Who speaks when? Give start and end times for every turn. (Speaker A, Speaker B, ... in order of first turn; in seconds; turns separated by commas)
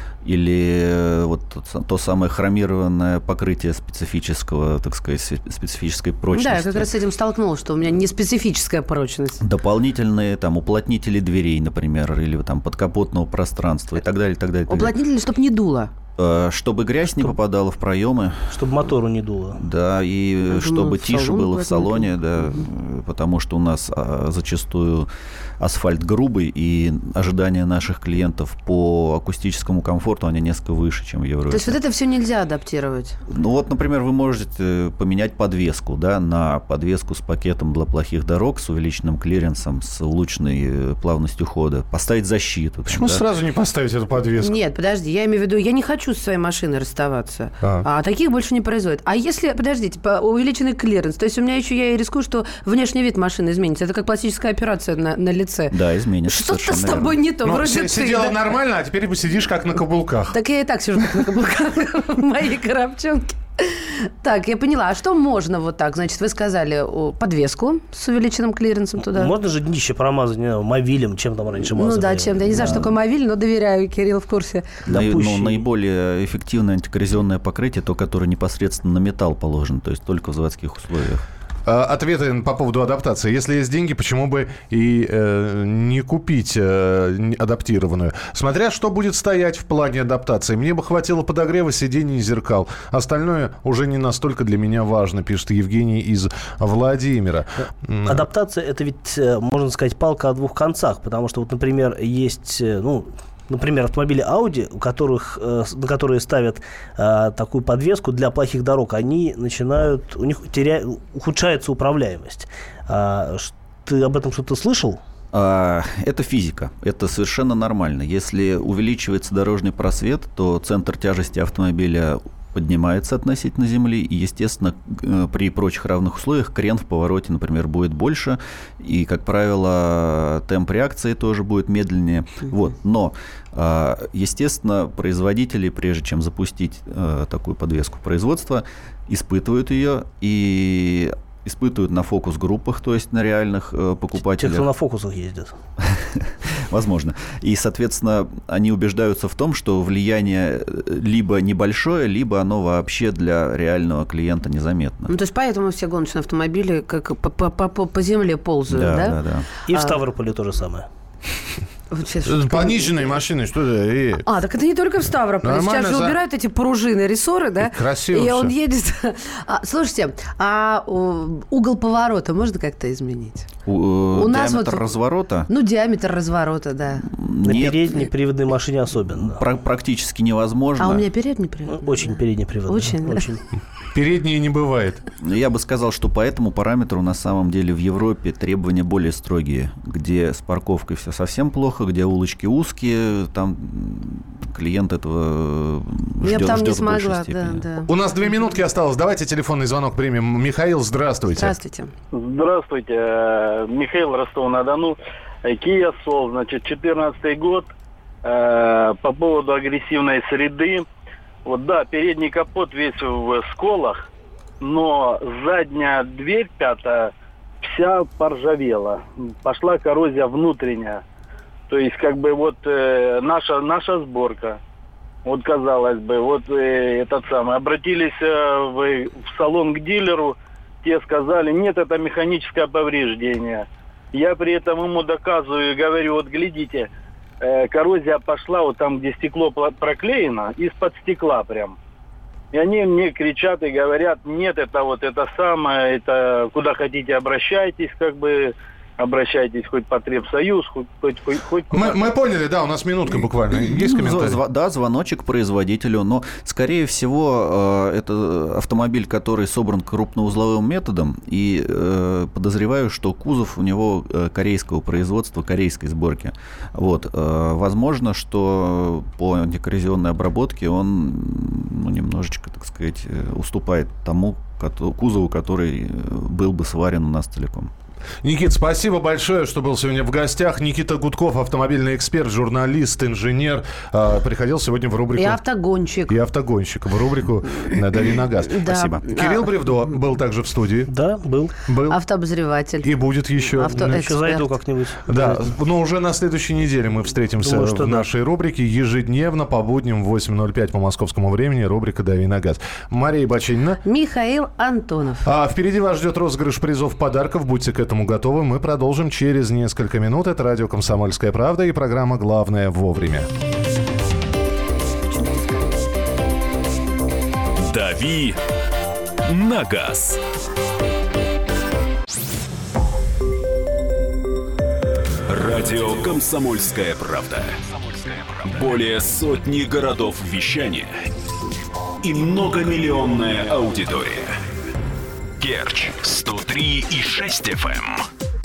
Speaker A: 0.2-6.9, Speaker B: 6.3-9.4, Speaker A: 9.4-14.9, Speaker B: 14.7-15.9, Speaker A: 16.2-18.9, Speaker C: 18.5-19.6, Speaker A: 19.6-25.1, Speaker B: 20.5-22.6, Speaker A: 25.6-31.8, Speaker B: 31.5-33.2, Speaker A: 33.3-43.2, Speaker D: 42.9-44.5, Speaker B: 44.4-55.8, Speaker D: 47.6-47.9, Speaker A: 55.7-57.2, Speaker B: 56.3-58.4, Speaker D: 57.5-60.4, Speaker B: 60.3-69.3, Speaker C: 69.0-72.9, Speaker B: 71.8-74.8, Speaker C: 74.8-75.6, Speaker A: 74.9-81.2, Speaker D: 81.7-98.3, Speaker C: 97.6-115.0, Speaker A: 115.3-144.7, Speaker C: 144.4-145.5, Speaker A: 145.8-155.1, Speaker B: 155.1-159.2, Speaker A: 158.7-159.5, Speaker C: 159.7-160.9, Speaker B: 159.7-160.0, Speaker B: 161.9-163.2, Speaker D: 162.3-164.2, Speaker B: 164.2-173.5, Speaker D: 165.4-166.2, Speaker D: 167.6-168.5, Speaker A: 173.7-175.5, Speaker B: 174.1-174.9, Speaker B: 175.5-177.1, Speaker A: 177.1-178.1, Speaker C: 177.4-179.4, Speaker A: 179.2-181.0, Speaker B: 180.8-183.3, Speaker C: 181.7-183.4, Speaker D: 183.9-185.0, Speaker A: 185.2-197.6, Speaker B: 196.2-197.9, Speaker D: 197.9-201.6, Speaker B: 201.4-201.9, Speaker E: 202.1-207.7, Speaker E: 208.2-210.9, Speaker E: 211.4-214.0, Speaker E: 214.6-221.0, Speaker E: 221.7-224.6, Speaker E: 225.2-236.9, Speaker E: 237.4-241.8, Speaker E: 242.5-252.0, Speaker D: 251.7-254.4, Speaker A: 253.7-277.7, Speaker D: 278.2-285.4, Speaker B: 285.2-286.1, Speaker D: 286.1-290.9, Speaker B: 288.5-289.5, Speaker C: 290.9-291.5, Speaker D: 291.7-292.0, Speaker B: 291.9-294.5, Speaker D: 292.8-294.1, Speaker C: 294.0-295.5, Speaker D: 295.1-303.8, Speaker C: 297.4-298.1, Speaker B: 303.8-305.3, Speaker D: 305.2-313.3, Speaker B: 315.1-315.5, Speaker F: 317.6-318.4, Speaker F: 319.3-320.2, Speaker F: 325.3-331.0, Speaker F: 332.0-334.4, Speaker F: 335.4-338.1